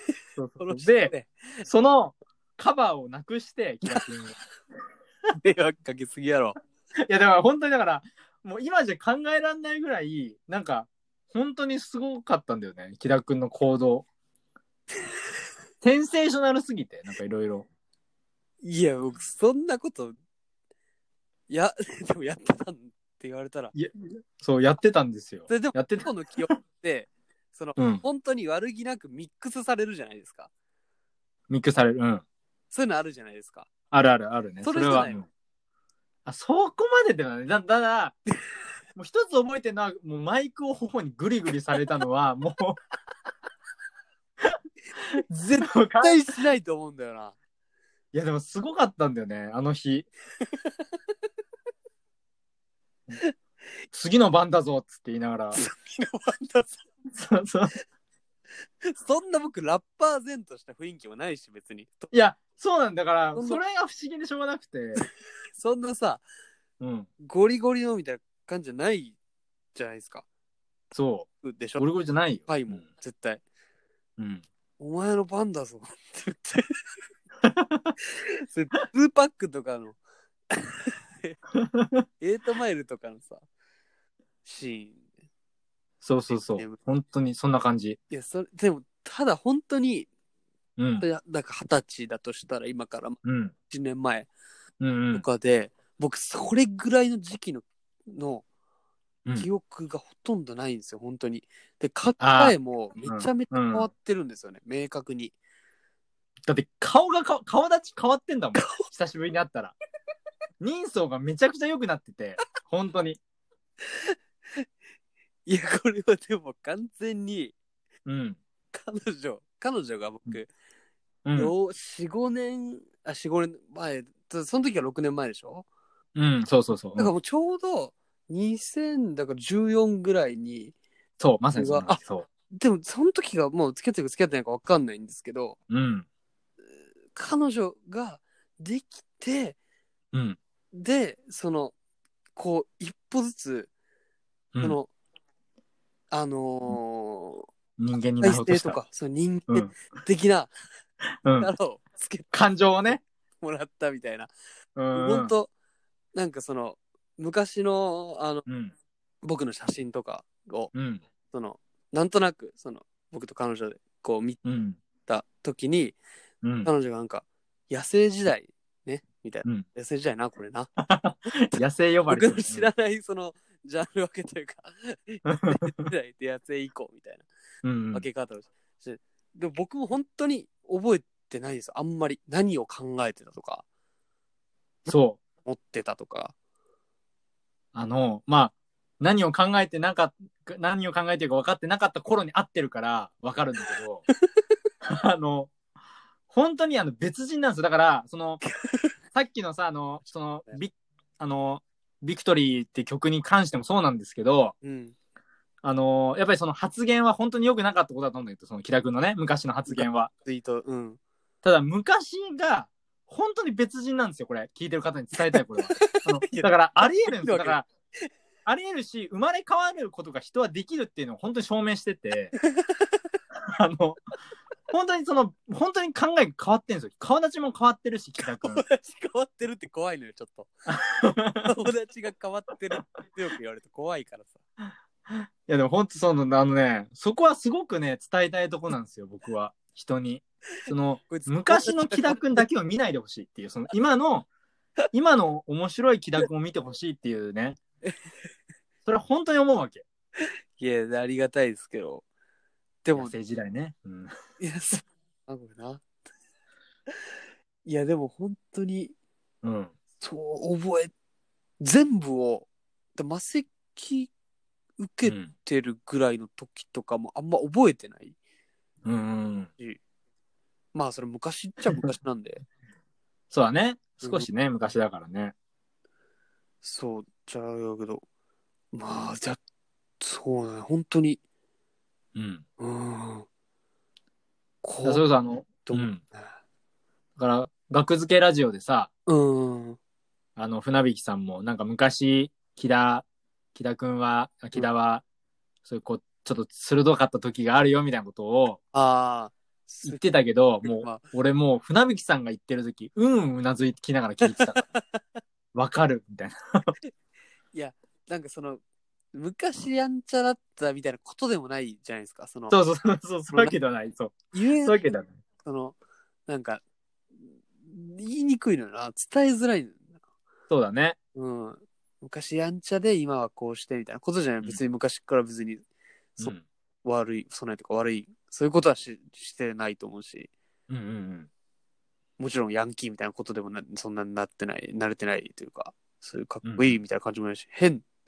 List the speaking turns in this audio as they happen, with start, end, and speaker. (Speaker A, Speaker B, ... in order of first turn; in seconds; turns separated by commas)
Speaker A: 0.4-1.1, Speaker B: 0.6-1.7, Speaker A: 1.6-4.3, Speaker B: 5.4-6.6, Speaker A: 7.0-14.1, Speaker A: 15.8-17.7, Speaker B: 18.6-20.2, Speaker B: 21.5-23.7, Speaker A: 23.7-26.1, Speaker B: 25.5-30.5, Speaker A: 27.8-28.0, Speaker A: 31.5-32.2, Speaker B: 32.7-33.7, Speaker A: 33.9-35.2, Speaker B: 34.6-35.2, Speaker A: 36.3-38.2, Speaker A: 39.0-42.8, Speaker B: 45.3-47.4, Speaker A: 45.6-46.2, Speaker A: 48.1-50.1, Speaker B: 50.4-50.7, Speaker A: 53.9-55.6, Speaker B: 55.5-56.8, Speaker A: 57.1-57.7, Speaker B: 58.9-62.1, Speaker A: 62.1-65.0, Speaker B: 63.4-63.6, Speaker B: 65.0-66.2, Speaker A: 66.8-67.1, Speaker B: 67.2-69.2, Speaker B: 69.8-70.2, Speaker A: 70.9-72.8, Speaker B: 71.4-71.9, Speaker B: 72.5-73.4, Speaker A: 74.2-74.4, Speaker B: 74.8-76.8, Speaker A: 77.4-77.9, Speaker B: 78.0-80.0, Speaker B: 80.5-81.4, Speaker A: 81.6-82.0, Speaker B: 82.2-83.4, Speaker B: 84.5-85.0, Speaker A: 86.0-88.0, Speaker B: 86.3-86.8, Speaker B: 88.1-90.1, Speaker A: 90.8-91.0, Speaker B: 91.0-93.2, Speaker A: 93.2-93.5, Speaker B: 93.7-94.3, Speaker A: 94.8-95.2, Speaker B: 95.1-98.5, Speaker B: 99.3-105.3, Speaker A: 102.2-103.9, Speaker A: 106.5-109.8, Speaker B: 108.6-108.8, Speaker A: 110.6-113.2, Speaker B: 113.9-114.7, Speaker B: 115.5-117.5, Speaker A: 118.1-118.4, Speaker B: 118.7-120.5, Speaker A: 121.2-121.5, Speaker B: 121.3-125.7, Speaker A: 126.2-127.1, Speaker B: 127.0-130.7, Speaker A: 131.2-132.3, Speaker B: 131.6-135.6, Speaker A: 135.7-136.1, Speaker B: 137.1-139.6, Speaker A: 140.1-140.4, Speaker B: 140.7-141.7, Speaker B: 142.4-143.7, Speaker B: 144.6-144.9, Speaker B: 146.1-147.5, Speaker A: 147.8-148.8, Speaker B: 148.2-150.5, Speaker A: 149.5-149.7, Speaker A: 151.2-151.5, Speaker B: 151.4-152.3, Speaker A: 152.3-153.0, Speaker B: 152.9-154.3, Speaker A: 154.8-155.3, Speaker B: 154.9-155.5, Speaker B: 156.2-158.4, Speaker A: 158.5-158.7, Speaker B: 159.2-160.7, Speaker A: 160.7-161.0, Speaker B: 161.3-164.4, Speaker A: 164.4-164.8, Speaker B: 165.1-166.0, Speaker A: 166.4-166.7, Speaker B: 166.6-170.7, Speaker A: 170.8-172.7, Speaker B: 172.1-177.3, Speaker A: 175.3-175.6, Speaker A: 177.6-178.1, Speaker B: 177.9-183.6, Speaker A: 184.9-185.2, Speaker B: 185.4-186.3, Speaker A: 187.7-194.0, Speaker A: 194.8-195.5, Speaker A: 196.3-198.4, Speaker B: 198.6-198.9, Speaker A: 199.2-204.6, Speaker B: 204.6-204.9, Speaker A: 205.6-210.1, Speaker B: 209.7-211.0, Speaker A: 211.4-217.7, Speaker B: 215.3-218.1, Speaker A: 218.5-222.3, Speaker B: 222.4-223.1, Speaker A: 223.5-224.0, Speaker A: 224.7-228.6, Speaker B: 228.4-230.5, Speaker A: 230.7-231.6, Speaker B: 231.4-234.4, Speaker A: 235.1-244.3, Speaker B: 241.1-242.4, Speaker A: 244.9-247.6, Speaker A: 248.9-249.8, Speaker B: 250.6-252.0, Speaker B: 252.8-253.1, Speaker A: 252.9-254.1, Speaker B: 254.4-255.8, Speaker B: 257.6-258.9, Speaker A: 259.4-259.7, Speaker B: 260.0-260.9, Speaker B: 261.6-264.1, Speaker B: 264.8-268.2, Speaker A: 265.1-265.3, Speaker A: 268.9-269.5, Speaker B: 270.7-272.4, Speaker A: 273.3-275.3, Speaker B: 274.0-274.3, Speaker B: 276.6-278.0, Speaker B: 278.7-279.4, Speaker B: 280.0-281.2, Speaker A: 282.1-282.4, Speaker B: 282.6-283.3, Speaker B: 284.6-286.3, Speaker A: 284.8-286.0, Speaker A: 287.2-288.9, Speaker B: 289.1-289.8, Speaker A: 290.4-295.0, Speaker A: 295.6-298.6, Speaker B: 298.7-300.0, Speaker A: 299.8-304.6, Speaker B: 300.6-301.1, Speaker B: 304.2-305.0, Speaker A: 305.5-306.7, Speaker B: 307.5-308.6, Speaker B: 309.1-312.6, Speaker A: 312.5-315.1, Speaker B: 313.3-313.6, Speaker B: 314.3-314.8, Speaker B: 315.4-315.8, Speaker B: 316.3-316.6, Speaker B: 317.6-319.8, Speaker A: 320.5-321.0, Speaker B: 321.2-325.6, Speaker B: 326.2-330.3, Speaker A: 326.2-326.4, Speaker A: 330.7-331.3, Speaker B: 332.2-337.9, Speaker A: 336.4-336.8